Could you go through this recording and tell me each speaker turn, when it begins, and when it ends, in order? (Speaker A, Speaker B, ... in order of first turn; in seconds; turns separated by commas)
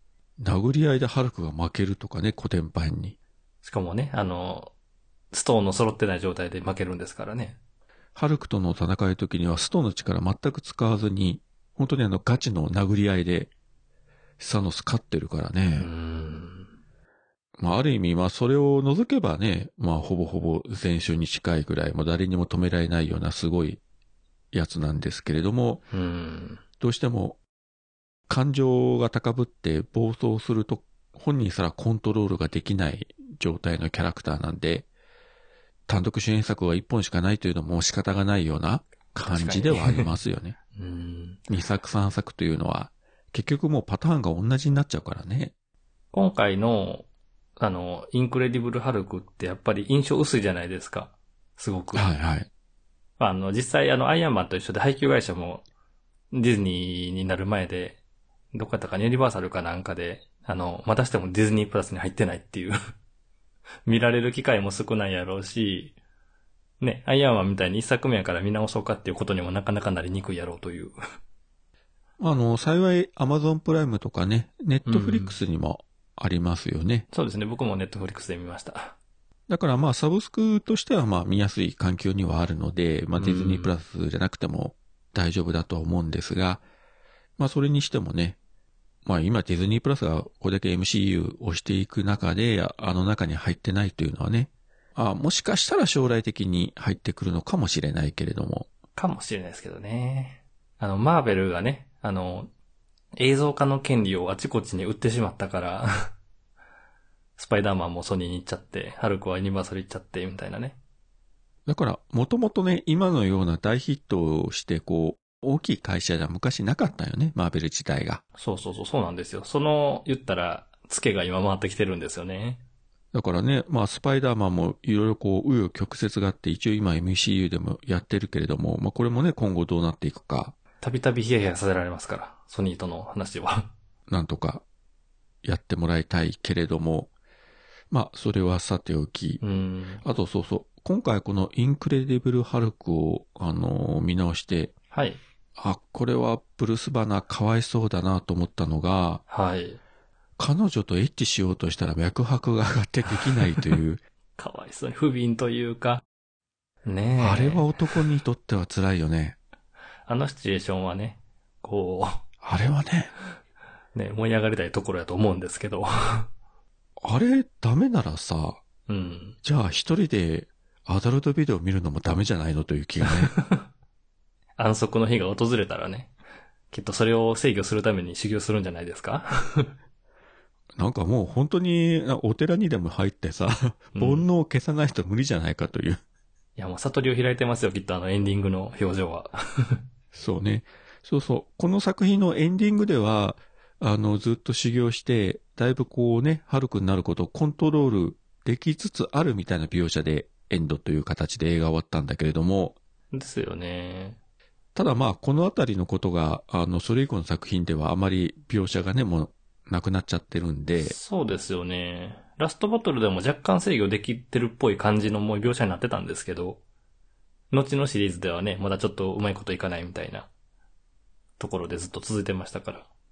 Speaker A: 0.4-3.1, Speaker B: 3.6-4.7, Speaker B: 5.3-7.6, Speaker A: 8.1-13.5, Speaker A: 14.4-15.9, Speaker B: 15.7-16.7, Speaker A: 17.6-23.8, Speaker A: 24.5-25.8, Speaker B: 25.9-26.6, Speaker A: 26.8-27.4, Speaker A: 28.3-34.9, Speaker A: 35.9-40.5, Speaker B: 39.2-40.1, Speaker B: 40.7-41.5, Speaker A: 41.5-45.5, Speaker B: 46.1-47.0, Speaker B: 47.6-52.0, Speaker A: 51.9-52.5, Speaker B: 53.2-55.6, Speaker B: 56.3-58.0, Speaker B: 58.5-62.8, Speaker B: 63.9-66.0, Speaker B: 66.8-70.9, Speaker A: 72.2-77.1, Speaker B: 74.8-75.3, Speaker B: 77.1-79.0, Speaker A: 79.5-86.6, Speaker B: 83.2-83.7, Speaker A: 87.4-88.4, Speaker A: 89.0-98.7, Speaker B: 99.0-102.5, Speaker B: 103.2-106.1, Speaker B: 107.4-110.8, Speaker A: 111.7-118.2, Speaker B: 118.4-122.6, Speaker A: 123.1-130.5, Speaker B: 130.8-133.7, Speaker A: 134.1-134.6, Speaker A: 135.4-137.1, Speaker A: 137.9-139.4, Speaker B: 139.4-140.0, Speaker A: 140.0-144.7, Speaker B: 144.9-145.2, Speaker A: 145.6-149.2, Speaker B: 149.3-149.8, Speaker A: 150.4-154.0, Speaker B: 153.4-153.8, Speaker B: 154.4-156.0, Speaker B: 156.8-158.0, Speaker A: 157.2-159.4, Speaker B: 160.1-162.2, Speaker A: 162.4-163.1, Speaker B: 163.9-166.3, Speaker A: 167.0-168.6, Speaker B: 168.9-169.4, Speaker A: 169.4-173.3, Speaker B: 173.1-173.7, Speaker B: 174.6-176.1, Speaker B: 176.7-179.7, Speaker A: 180.8-186.0, Speaker B: 183.9-184.3, Speaker B: 186.6-189.8, Speaker A: 190.1-202.8, Speaker B: 203.1-204.2, Speaker A: 204.7-210.9, Speaker B: 210.8-216.6, Speaker B: 217.5-220.3, Speaker B: 221.4-222.8